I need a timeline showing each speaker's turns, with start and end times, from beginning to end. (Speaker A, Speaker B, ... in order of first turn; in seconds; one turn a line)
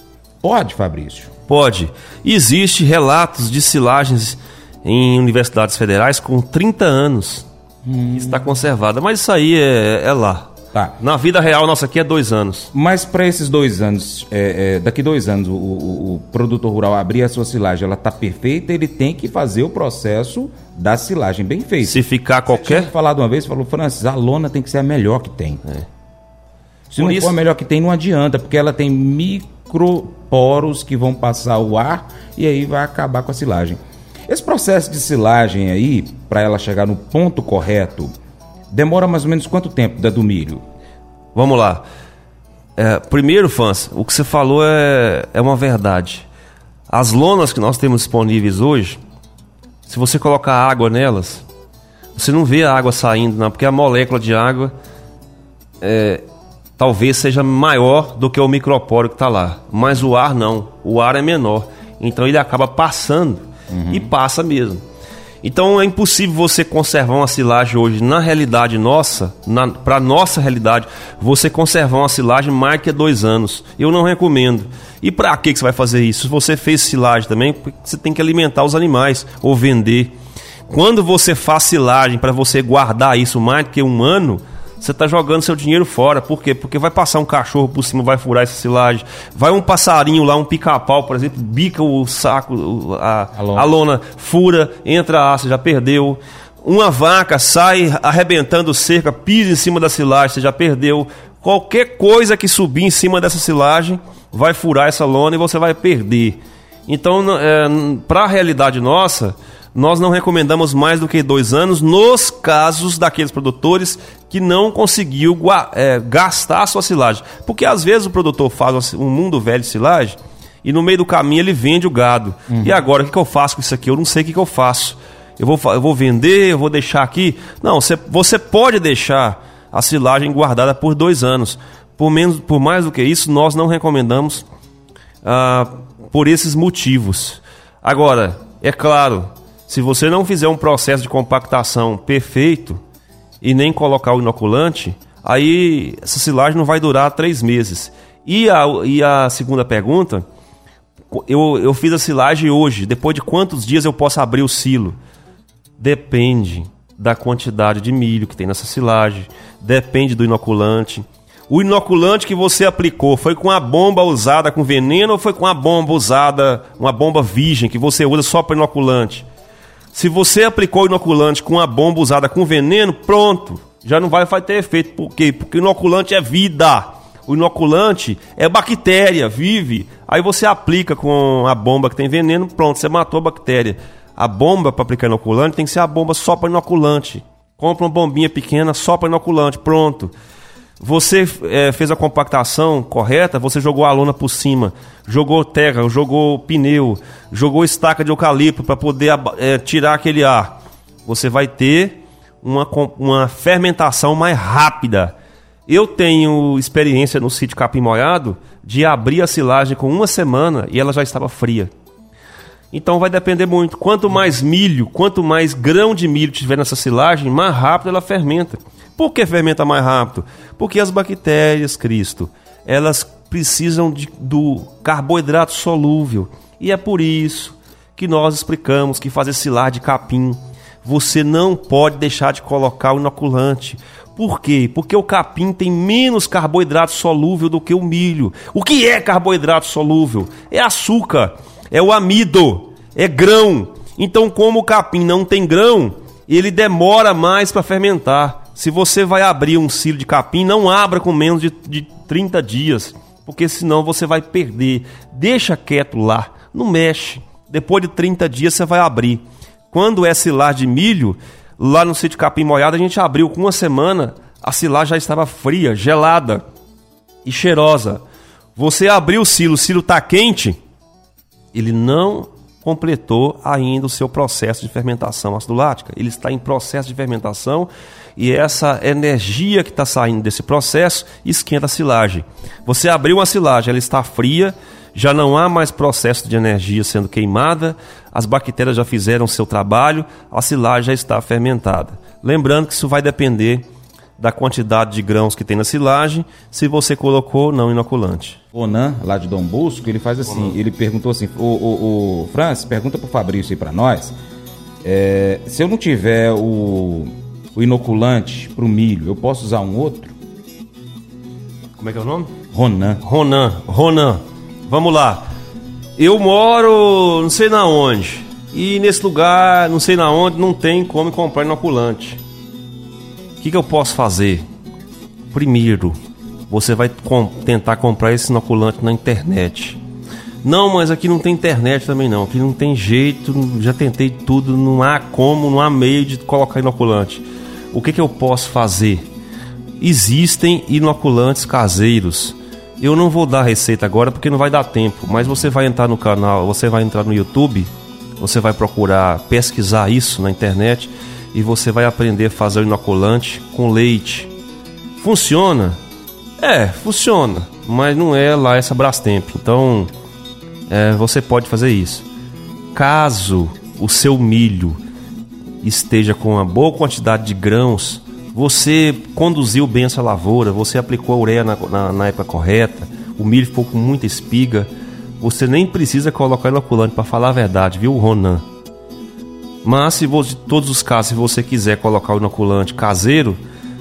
Speaker A: 0.4-1.3
Speaker B: 1.5-7.5
Speaker A: 7.8-8.4
Speaker B: 8.1-12.7
Speaker A: 12.7-25.6
Speaker B: 21.8-22.9
Speaker A: 26.9-38.1
Speaker B: 27.0-27.4
Speaker A: 38.7-40.6
Speaker B: 41.4-41.9
Speaker B: 42.8-46.3
Speaker B: 46.9-49.0
Speaker B: 49.9-51.5
Speaker B: 52.1-54.7
Speaker B: 55.8-56.2
Speaker B: 56.8-64.8
Speaker A: 63.7-64.1
Speaker B: 65.4-80.2
Speaker B: 80.7-134.5
Speaker A: 93.3-93.7
Speaker B: 135.2-142.8
Speaker B: 143.4-150.2
Speaker B: 151.1-155.0
Speaker B: 155.8-169.3
Speaker B: 169.9-190.1
Speaker B: 190.8-205.1
Speaker B: 205.7-211.7
Speaker B: 212.7-266.4
Speaker B: 267.2-268.0
Speaker B: 268.6-270.6
Speaker B: 271.5-293.6
Speaker B: 294.2-298.4
Speaker A: 298.5-304.1
Speaker A: 304.8-310.1
Speaker B: 311.8-312.3
Speaker A: 312.5-313.0
Speaker B: 313.0-315.3
Speaker B: 316.0-322.2
Speaker B: 323.4-324.4
Speaker B: 325.3-326.0
Speaker B: 326.5-329.8
Speaker B: 330.4-339.0
Speaker B: 339.8-354.3
Speaker B: 355.0-355.8
Speaker B: 356.4-359.9
Speaker B: 360.7-362.1
Speaker B: 362.7-364.8
Speaker B: 365.6-374.7
Speaker B: 375.2-378.4
Speaker B: 379.6-383.4